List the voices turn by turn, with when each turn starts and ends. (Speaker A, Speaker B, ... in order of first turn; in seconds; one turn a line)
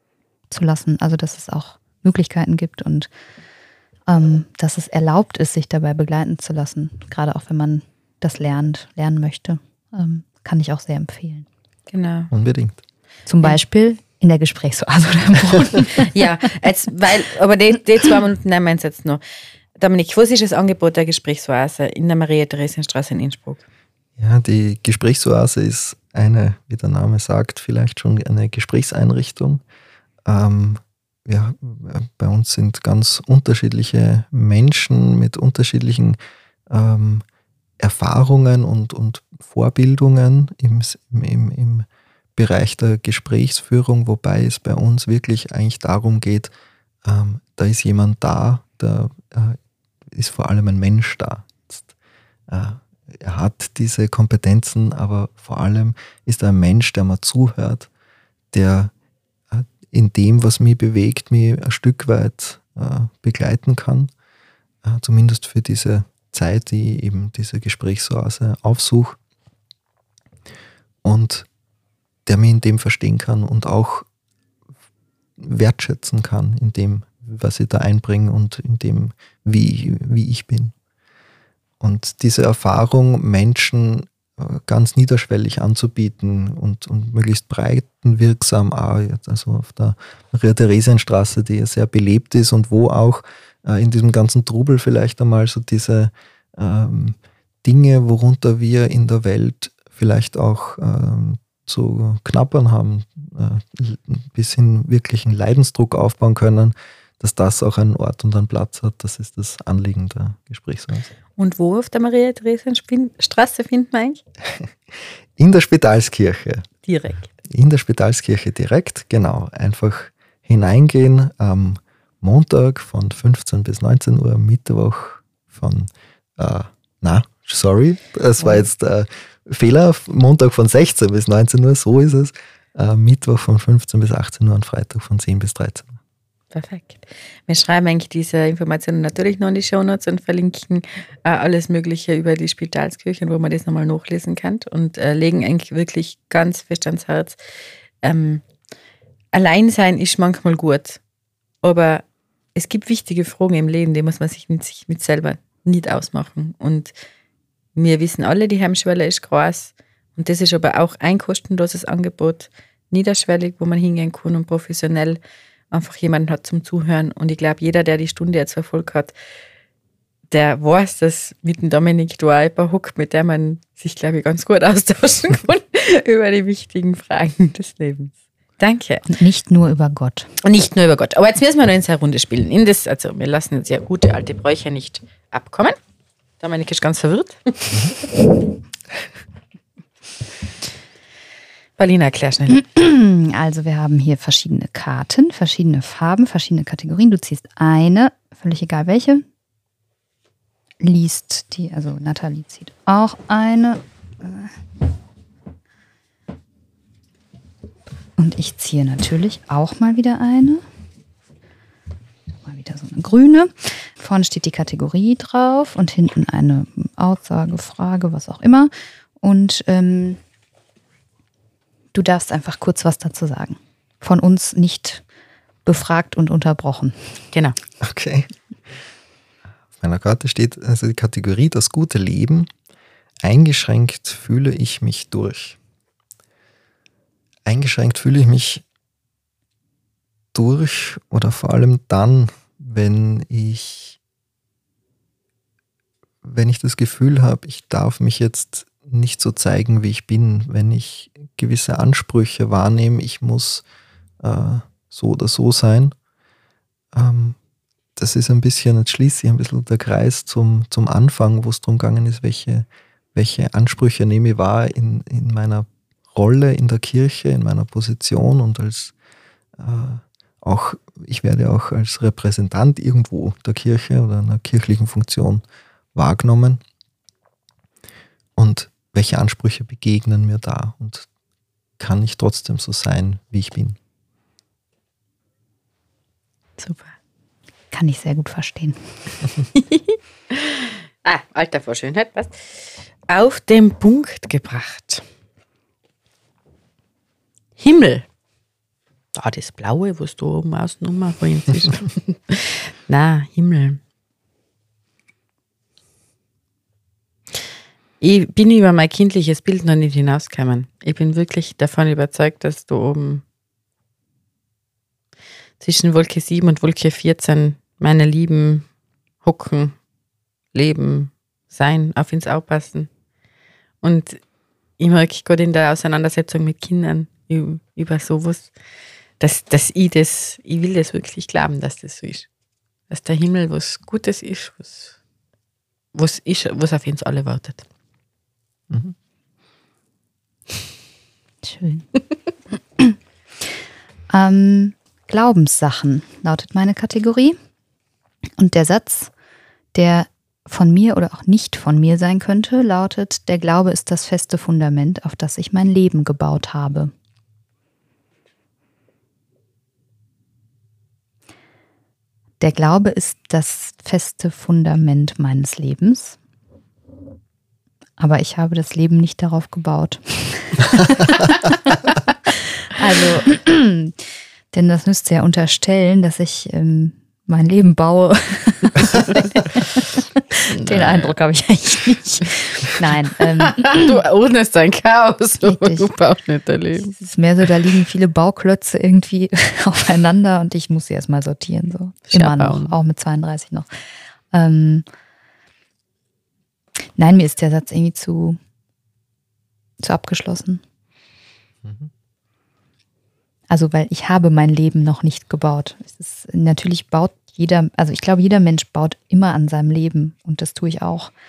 Speaker A: 0.5-3.1
Speaker A: 4.1-11.5
Speaker B: 11.9-12.3
Speaker C: 12.3-12.8
Speaker A: 13.3-16.3
Speaker B: 15.9-19.2
Speaker B: 19.8-23.6
Speaker C: 24.2-29.6
Speaker C: 30.2-36.2
Speaker C: 36.7-37.2
Speaker C: 37.8-46.5
Speaker C: 47.0-49.6
Speaker C: 50.1-51.9
Speaker C: 52.5-57.9
Speaker C: 58.5-58.9
Speaker C: 59.5-64.1
Speaker C: 64.8-69.2
Speaker C: 71.0-71.5
Speaker C: 72.2-74.0
Speaker C: 75.4-80.7
Speaker C: 81.8-111.1
Speaker B: 111.4-114.2
Speaker C: 115.4-116.7
Speaker B: 116.8-117.3
Speaker C: 117.5-136.0
Speaker B: 136.5-147.4
Speaker B: 148.0-148.4
Speaker B: 149.3-151.0
Speaker B: 151.6-156.9
Speaker B: 157.8-165.2
Speaker B: 165.7-169.1
Speaker B: 170.3-179.1
Speaker A: 179.1-180.3
Speaker B: 180.4-185.8
Speaker B: 186.4-187.9
Speaker B: 191.8-192.6
Speaker A: 192.5-199.2
Speaker A: 200.8-204.6
Speaker A: 208.2-210.6
Speaker A: 212.4-220.2
Speaker A: 221.9-225.0
Speaker A: 225.6-227.1
Speaker C: 227.8-228.3
Speaker C: 229.8-232.5
Speaker C: 233.2-235.6
Speaker C: 237.4-238.6
Speaker C: 240.3-244.0
Speaker C: 246.2-253.6
Speaker C: 254.2-255.9
Speaker C: 256.9-257.4
Speaker C: 257.9-268.9
Speaker C: 269.6-275.4
Speaker C: 275.9-276.6
Speaker C: 278.4-281.1
Speaker C: 281.8-283.8
Speaker B: 286.6-286.9
Speaker A: 287.7-288.8
Speaker B: 289.6-295.0
Speaker B: 297.6-298.1
Speaker B: 299.1-303.8
Speaker B: 308.0-313.2
Speaker B: 315.6-318.7
Speaker B: 319.2-319.8
Speaker B: 320.5-322.9
Speaker B: 323.8-324.2
Speaker B: 324.8-328.5
Speaker B: 329.2-332.3
Speaker B: 332.9-334.9
Speaker B: 335.9-337.6
Speaker C: 338.7-338.9
Speaker A: 341.4-341.9
Speaker A: 344.1-347.4
Speaker A: 348.4-349.1
Speaker A: 349.7-356.9
Speaker A: 362.4-366.2
Speaker A: 368.0-371.7
Speaker A: 372.3-374.0
Speaker A: 374.5-379.8
Speaker A: 380.3-384.0
Speaker B: 380.6-381.0
Speaker B: 383.4-386.9
Speaker A: 385.4-385.9
Speaker A: 386.8-393.7
Speaker B: 392.1-392.7
Speaker A: 394.3-394.8
Speaker A: 396.9-398.4
Speaker A: 399.8-400.6
Speaker C: 401.6-401.9
Speaker A: 403.5-411.1